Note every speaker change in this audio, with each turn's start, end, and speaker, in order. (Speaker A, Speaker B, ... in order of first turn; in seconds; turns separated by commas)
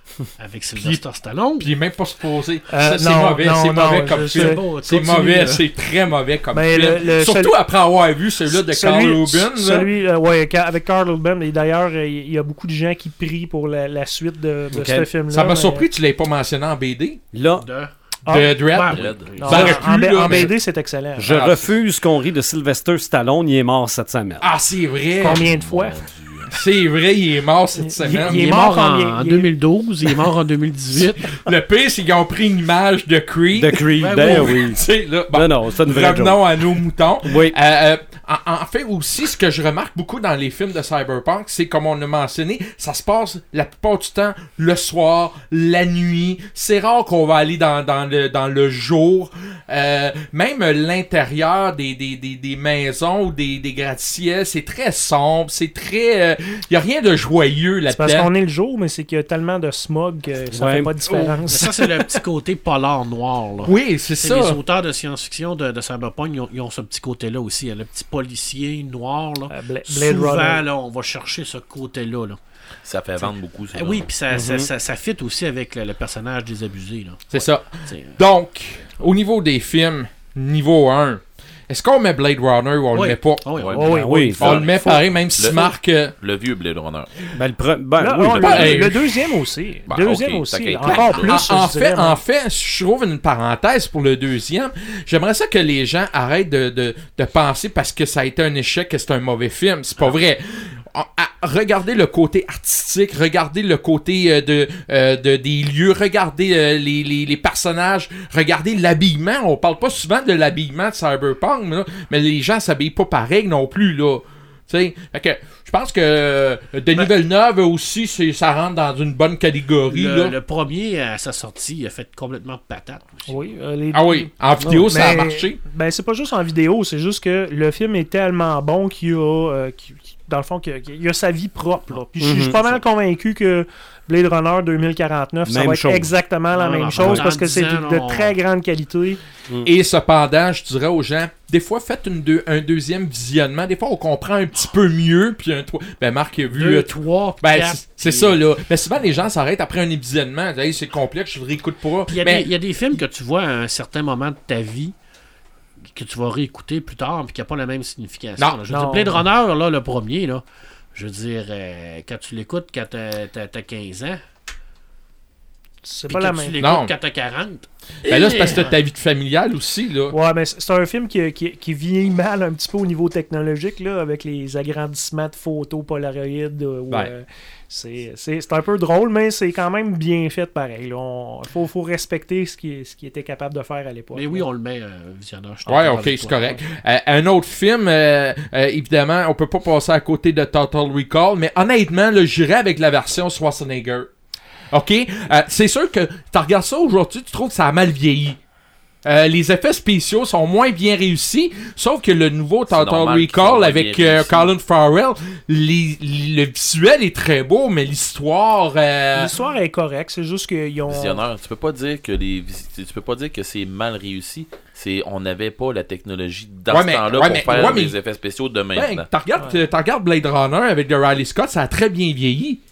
Speaker A: 0.4-1.8, Speaker B: 1.6-9.9, Speaker C: 2.7-4.6, Speaker A: 4.0-5.7, Speaker C: 6.5-7.6, Speaker C: 8.5-15.9, Speaker D: 14.7-15.1, Speaker B: 15.3-17.2, Speaker D: 17.3-17.7, Speaker A: 17.6-17.9, Speaker C: 18.3-18.6, Speaker B: 18.3-20.5, Speaker A: 18.4-19.9, Speaker E: 18.9-19.6, Speaker C: 19.4-21.3, Speaker D: 21.2-24.5, Speaker B: 21.2-21.7, Speaker B: 24.4-25.5, Speaker C: 25.2-26.0, Speaker E: 25.2-26.5, Speaker B: 26.5-28.4, Speaker C: 27.8-29.5, Speaker A: 28.2-31.3, Speaker B: 31.2-58.3, Speaker D: 33.5-36.6, Speaker A: 34.0-34.6, Speaker D: 37.2-37.6, Speaker C: 57.9-61.7, Speaker D: 60.5-61.3, Speaker A: 61.5-72.4, Speaker B: 63.6-64.6, Speaker C: 69.5-70.6, Speaker E: 72.8-74.1, Speaker A: 73.2-78.2, Speaker D: 74.3-74.7, Speaker B: 77.3-83.5, Speaker A: 82.9-84.8, Speaker E: 83.5-83.8, Speaker C: 83.7-85.0, Speaker D: 83.9-84.6, Speaker B: 84.4-86.1, Speaker E: 85.4-87.1, Speaker D: 87.3-88.9, Speaker C: 88.0-92.2, Speaker B: 88.4-89.0, Speaker E: 89.9-91.4, Speaker B: 90.8-120.3, Speaker A: 119.9-123.4, Speaker C: 123.3-124.3, Speaker B: 123.9-125.6, Speaker C: 124.9-139.2, Speaker D: 132.2-132.6, Speaker D: 135.5-136.2, Speaker A: 136.5-138.4, Speaker D: 137.0-137.3, Speaker B: 139.6-152.5, Speaker A: 146.5-148.4, Speaker A: 152.1-155.0, Speaker A: 155.8-164.2, Speaker C: 158.7-159.2, Speaker C: 165.8-166.6, Speaker A: 166.1-168.8, Speaker B: 166.6-166.9, Speaker B: 168.1-170.2, Speaker C: 170.1-184.4, Speaker A: 184.1-186.6, Speaker B: 185.7-194.1, Speaker B: 194.7-198.4, Speaker B: 199.0-209.3, Speaker E: 202.7-204.5, Speaker C: 209.2-211.2, Speaker E: 210.9-219.1, Speaker B: 216.7-217.9, Speaker B: 218.7-222.6